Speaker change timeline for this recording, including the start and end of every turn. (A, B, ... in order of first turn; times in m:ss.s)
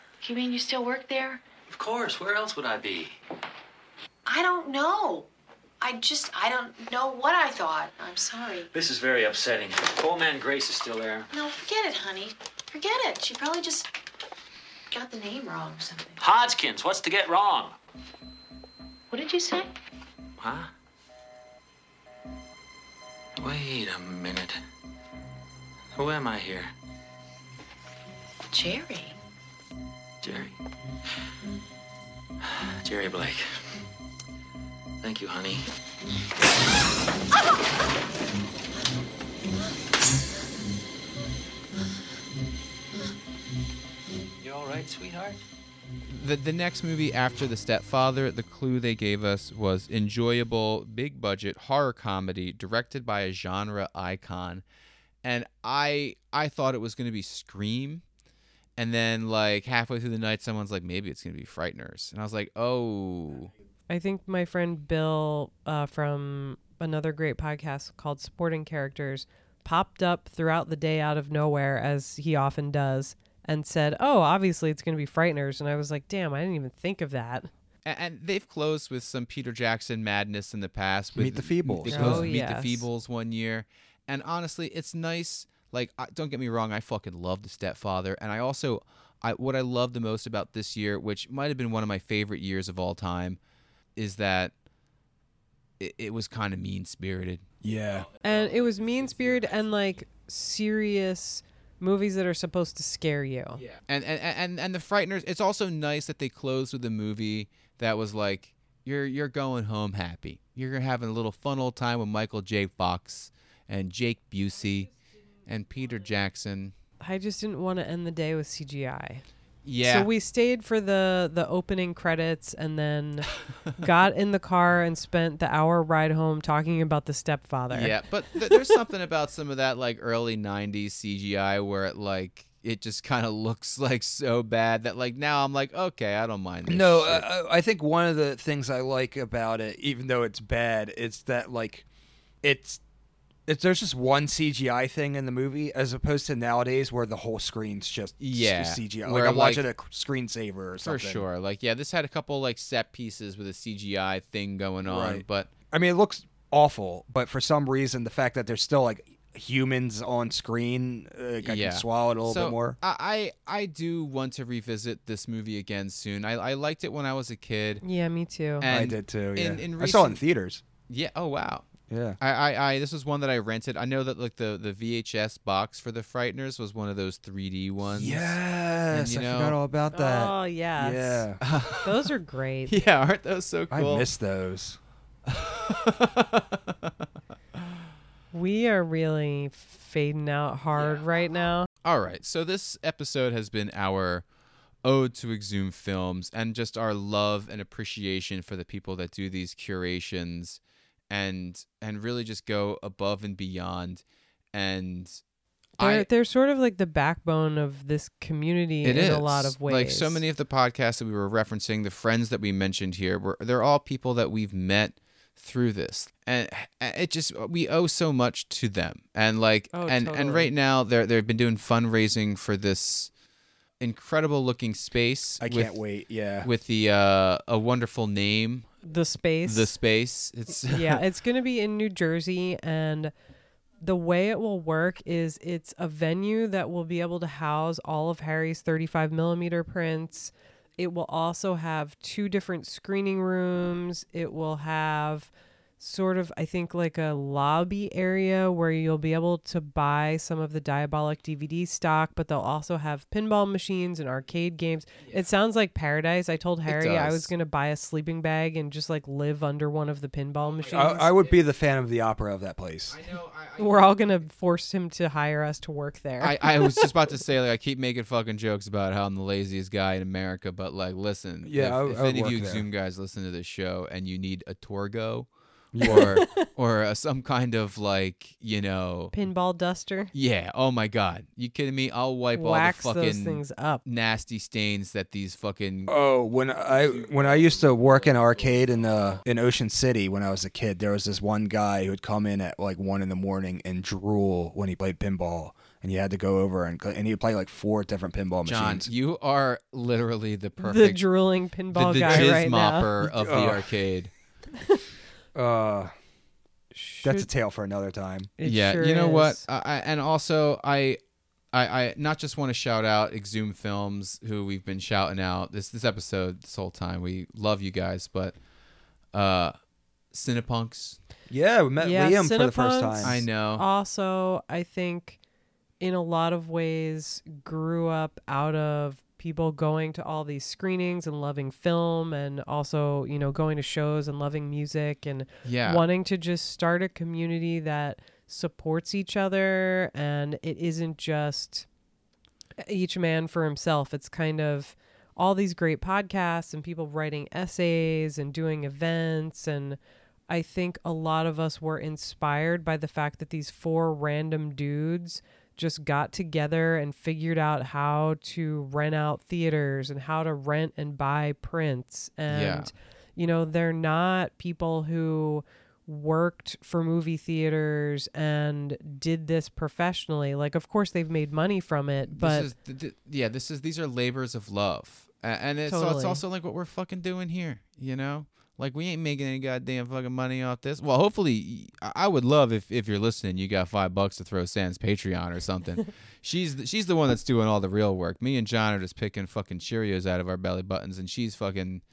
0:00.2-0:01.4 A
0:01.7-0:03.2 B
0:04.2-0:05.3 A
0:05.8-0:08.7 A
0:08.7-0:11.3 B
0:11.3-0:13.9 A
0:14.9-0:16.2 A
0:16.2-0:17.7 B
0:19.1-0:19.7 A
0:20.4-0:20.7 B
0:23.4-0:24.6 B
0:26.0-0:26.7 B
0:28.5-0:29.2 A
0:30.2-0:30.6 B
0:32.4-0:33.6 B
0:35.0-0:35.7 B
0:44.4-0:45.4 B
0:46.1-0:54.6 C
0:55.2-0:58.0 C
0:58.8-1:03.5 C
1:03.9-1:17.5 D
1:17.8-1:33.4 C
1:21.1-1:22.3 E
1:21.9-1:22.8 D
1:34.0-1:34.5 C
1:35.8-1:40.0 C
1:37.6-1:38.1 E
1:38.2-1:43.6 D
1:43.6-1:54.9 C
1:55.4-1:56.7 C
1:57.0-1:59.2 D
1:59.6-2:00.1 C
1:59.8-2:07.9 D
2:07.7-2:17.3 C
2:16.7-2:21.8 E
2:22.4-2:22.8 E
2:23.5-2:31.2 E
2:28.2-2:29.6 C
2:30.8-2:35.5 C
2:34.8-2:42.8 E
2:41.4-2:47.8 C
2:47.8-2:48.6 D
2:48.6-2:50.2 C
2:48.7-2:50.6 E
2:50.9-2:58.4 C
2:51.9-2:52.2 E
2:57.9-3:01.4 E
2:58.9-2:59.6 C
2:59.9-3:01.2 D
3:01.4-3:02.1 C
3:01.8-3:02.8 D
3:02.7-3:04.1 C
3:03.7-3:04.8 E
3:05.3-3:06.9 C
3:08.3-3:11.7 D
3:11.8-3:14.2 C
3:14.8-3:25.2 C
3:25.8-3:26.1 C
3:25.8-3:30.2 D
3:28.8-3:43.1 C
3:39.7-3:40.5 D
3:43.8-3:45.8 C
3:45.4-3:46.5 E
3:46.4-3:48.8 C
3:48.8-3:49.7 D
3:49.4-3:51.0 C
3:50.7-3:53.1 D
3:53.8-4:21.1 D
4:16.7-4:17.3 C
4:20.5-4:21.4 C
4:20.7-4:23.0 E
4:22.9-4:24.0 C
4:23.6-4:26.9 D
4:26.2-4:39.1 C
4:31.4-4:32.6 E
4:35.7-4:36.1 E
4:35.8-4:36.4 D
4:39.1-4:40.1 D
4:40.1-4:45.9 C
4:42.3-4:43.8 D
4:45.9-4:58.9 E
4:46.6-4:49.2 C
4:58.4-5:01.0 C
5:00.6-5:02.9 D
5:01.7-5:04.1 C
5:02.0-5:02.3 E
5:03.0-5:03.6 E
5:05.3-5:05.9 E
5:06.7-5:07.3 D
5:07.0-5:08.3 E
5:08.4-5:09.4 D
5:08.4-5:11.0 C
5:11.5-5:18.4 C
5:19.1-5:19.5 C
5:20.1-5:21.0 C
5:21.3-5:23.2 E
5:21.8-5:25.2 D
5:23.0-5:23.6 C
5:25.8-5:41.6 D
5:35.4-5:35.8 C
5:42.6-5:49.8 D
5:50.3-6:12.5 D
6:02.3-6:02.7 C
6:12.1-6:31.8 C
6:15.7-6:16.2 D